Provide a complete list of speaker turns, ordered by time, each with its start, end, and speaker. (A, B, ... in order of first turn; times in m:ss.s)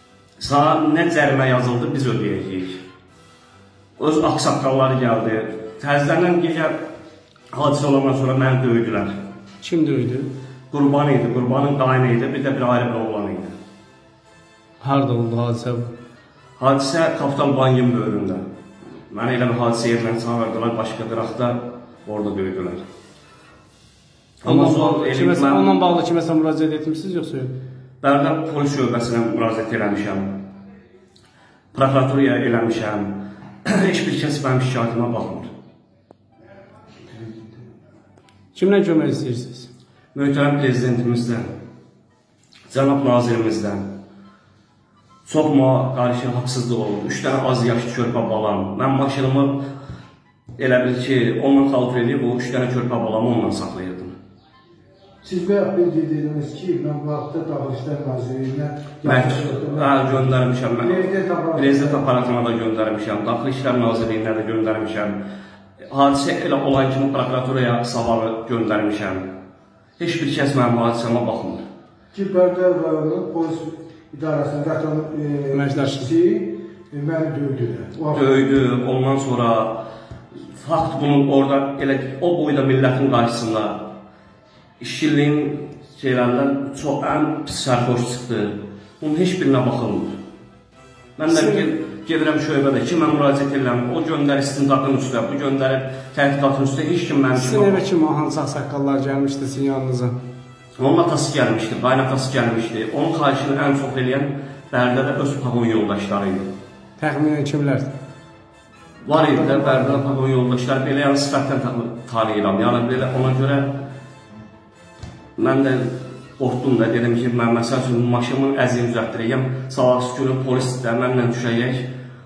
0:00.4-0:02.8 A
0:04.0-0:06.8 A
0:07.5-0:09.1 A
0:09.6-0:10.3 B
0:10.7-0:13.5 A
0:14.8-0:15.9 B
0:16.6-0:18.4 A
0:19.1-0:22.8 A
0:24.4-0:25.7 A
0:24.4-0:27.4 B
0:28.0-0:30.3 A
0:31.7-0:35.5 A
0:38.5-0:39.5 B
0:40.1-0:41.5 A
0:42.7-0:43.8 A
0:45.2-0:49.6 A
0:50.6-0:54.1 A
0:55.2-1:00.1 C
0:59.0-1:05.2 A
1:00.8-1:02.1 C
1:05.9-1:09.2 A
1:10.0-1:11.6 A
1:12.1-1:18.2 C
1:15.5-1:16.1 B
1:18.1-1:19.8 A
1:20.5-1:23.9 A
1:24.8-1:30.1 A
1:31.2-1:37.8 A
1:31.3-1:31.6 B
1:37.4-1:40.2 B
1:40.8-1:46.5 A
1:47.0-1:47.9 B
1:49.0-1:53.7 A
1:55.4-2:01.9 A